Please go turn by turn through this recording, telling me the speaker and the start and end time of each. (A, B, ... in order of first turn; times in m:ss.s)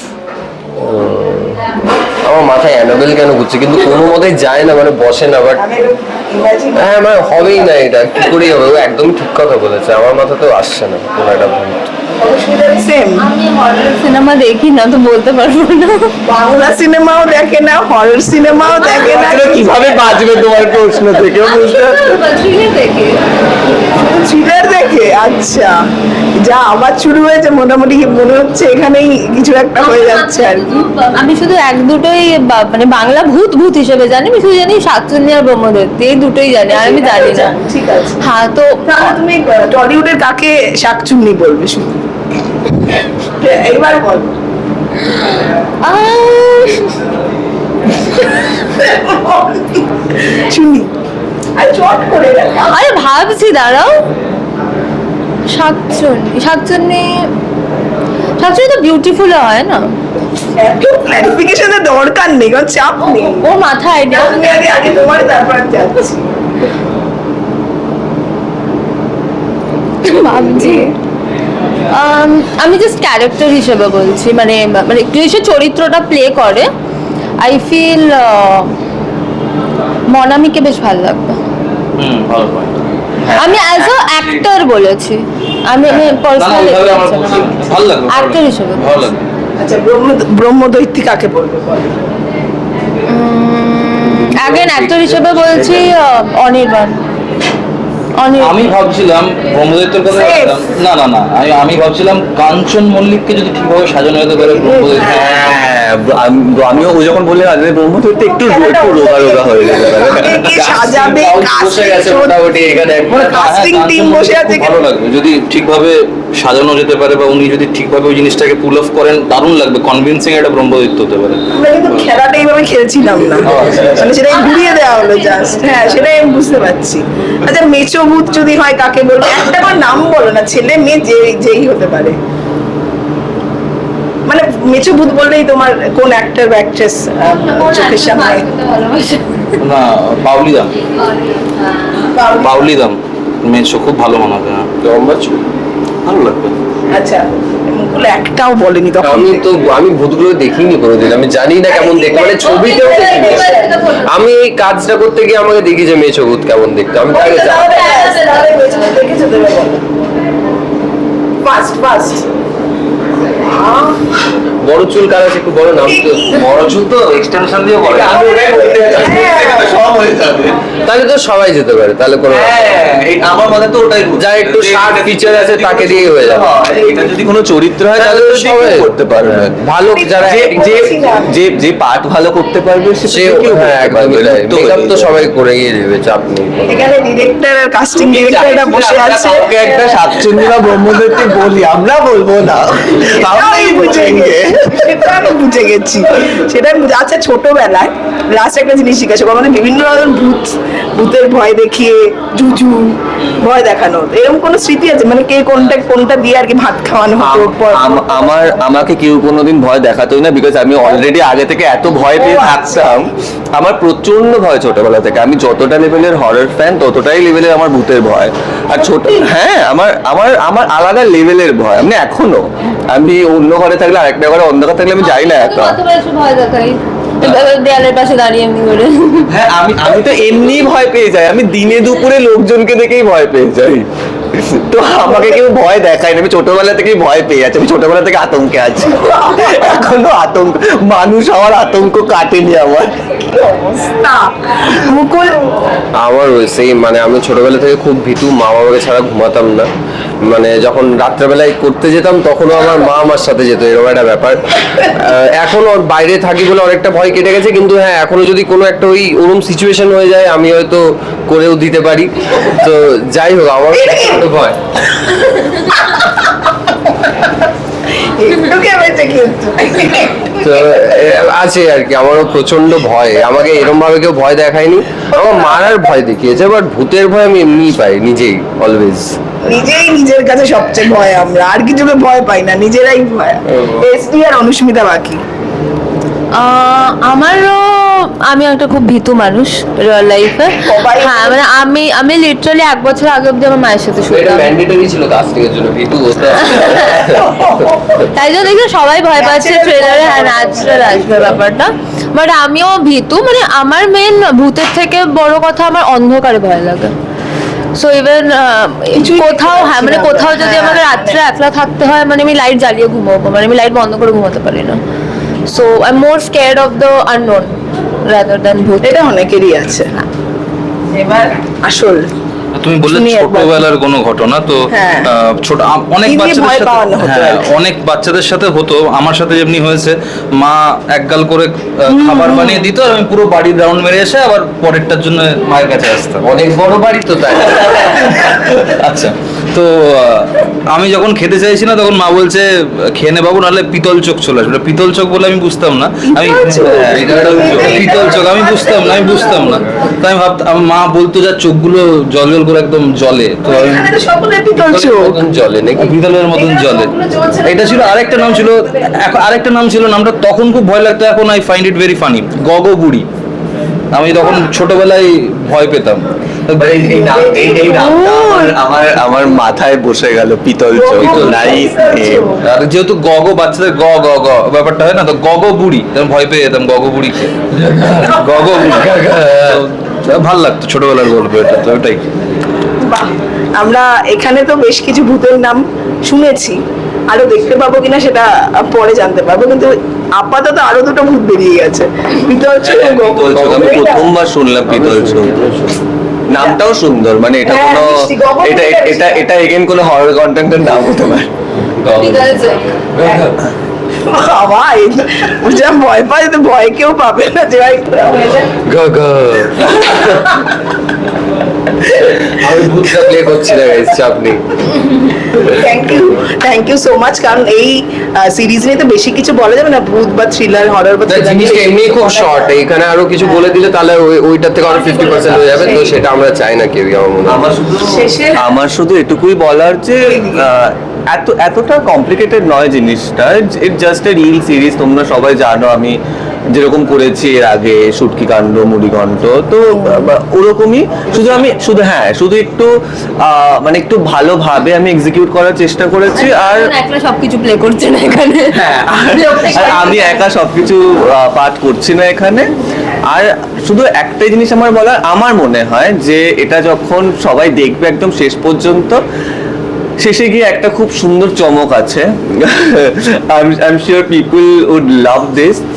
0:00.8-0:01.7 A
0:02.2-0:05.6 A
0:05.6-0:07.6 B
0:06.7-0:11.9 A
0:12.2-0:13.3 B
0:13.2-0:16.1 C
0:16.2-0:19.9 B
0:18.8-0:22.2 D
0:21.4-0:23.2 C
0:23.9-0:25.8 B
0:26.4-0:30.8 B
0:29.8-0:37.5 C
0:36.7-0:38.2 B
0:38.2-0:39.2 C
0:38.8-0:42.0 B
0:43.4-0:44.4 B
0:45.8-0:47.0 C
0:48.7-0:50.9 B
0:51.6-0:52.8 B
0:52.7-0:54.0 C
0:55.5-0:57.3 C
0:58.4-0:59.9 C
1:00.6-1:03.4 B
1:03.4-1:04.5 C
1:04.1-1:06.3 B
1:10.0-1:10.9 C
1:10.1-1:10.9 B
1:11.9-1:16.7 C
1:17.4-1:18.7 C
1:20.1-1:21.4 C
1:22.0-1:24.3 E
1:23.3-1:28.9 C
1:25.9-1:29.2 E
1:29.6-1:32.0 B
1:33.0-1:37.0 C
1:34.1-1:35.9 A
1:38.2-1:38.6 C
1:38.4-1:45.2 E
1:40.1-1:40.6 B
1:44.4-1:45.2 B
1:45.0-1:50.5 D
1:48.2-1:52.4 B
1:50.6-1:53.2 A
1:53.1-2:02.1 E
1:53.1-1:54.7 B
2:01.5-2:12.2 B
2:03.4-2:04.1 E
2:04.3-2:06.0 C
2:14.3-2:18.4 B
2:17.2-2:19.6 C
2:19.6-2:20.7 E
2:20.8-2:22.1 C
2:22.1-2:22.7 B
2:22.4-2:24.7 E
2:24.8-2:25.4 A
2:26.0-2:26.5 E
2:26.9-2:29.4 B
2:29.0-2:33.5 A
2:31.7-2:33.8 B
2:32.4-2:34.1 C
2:34.1-2:37.7 A
2:37.1-2:39.8 B
2:37.6-2:38.7 C
2:41.4-2:42.3 B
2:43.3-2:44.0 B
2:44.6-2:46.8 A
2:45.9-2:46.4 B
2:46.4-2:48.2 E
2:47.8-2:50.6 D
2:48.0-2:49.7 B
2:50.8-2:52.5 A
2:52.3-2:59.6 D
2:54.2-2:56.5 A
2:56.7-2:57.1 B
2:58.0-3:00.9 A
2:59.9-3:01.4 B
3:00.2-3:05.2 D
3:03.1-3:06.8 A
3:06.7-3:09.7 B
3:08.0-3:09.9 A
3:09.2-3:15.0 D
3:13.0-3:28.3 B
3:27.2-3:45.8 D
3:32.2-3:33.1 B
3:45.0-3:49.3 C
3:49.3-4:03.0 D
3:55.0-3:55.4 B
3:58.9-3:59.6 B
4:03.2-4:05.5 B
4:06.0-4:09.7 A
4:10.2-4:24.6 A
4:23.7-4:24.3 B
4:25.0-4:26.1 B
4:28.0-4:30.7 B
4:30.4-4:39.2 A
4:35.1-4:35.8 B
4:39.4-4:45.2 B
4:43.5-4:43.8 A
4:46.3-4:54.5 C
4:50.6-4:51.4 B
4:54.1-4:57.7 A
4:56.5-4:57.1 C
4:58.0-5:06.9 C
4:59.2-5:01.4 B
5:07.7-5:14.8 C
5:09.0-5:11.2 B
5:15.5-5:19.0 C
5:18.8-5:19.9 B
5:20.9-5:22.1 B
5:22.5-5:36.2 E
5:22.8-5:23.6 B
5:24.7-5:25.1 B
5:26.0-5:27.5 B
5:31.9-5:32.7 B
5:36.2-5:38.1 A
5:37.4-5:53.9 E
5:46.1-5:49.9 B
5:46.9-5:48.3 A
5:53.4-5:55.2 B
5:54.5-5:56.0 A
5:55.8-5:56.9 E
5:56.3-5:58.9 B
5:57.4-6:03.0 E
6:03.9-6:06.8 E
6:06.6-6:12.2 D
6:06.9-6:07.7 B
6:07.5-6:08.5 C
6:10.7-6:12.4 B
6:12.4-6:22.1 E
6:17.7-6:19.6 A
6:22.8-6:34.1 B
6:32.9-6:35.4 D
6:33.4-6:33.6 A
6:34.7-6:35.8 A
6:36.3-6:41.3 D
6:37.4-6:39.2 B
6:41.6-6:42.4 A
6:41.8-6:42.8 C
6:42.9-6:43.4 A
6:44.1-6:48.5 B
6:48.6-6:50.4 A
6:51.8-6:52.9 B
6:52.2-6:54.4 A
6:55.3-7:02.6 B
7:01.1-7:07.5 A
7:04.9-7:05.9 B
7:07.2-7:16.0 D
7:07.8-7:08.5 B
7:10.0-7:10.4 B
7:16.5-7:26.7 D
7:26.2-7:30.1 C
7:28.5-7:32.5 D
7:33.1-7:39.0 D
7:40.0-7:45.6 D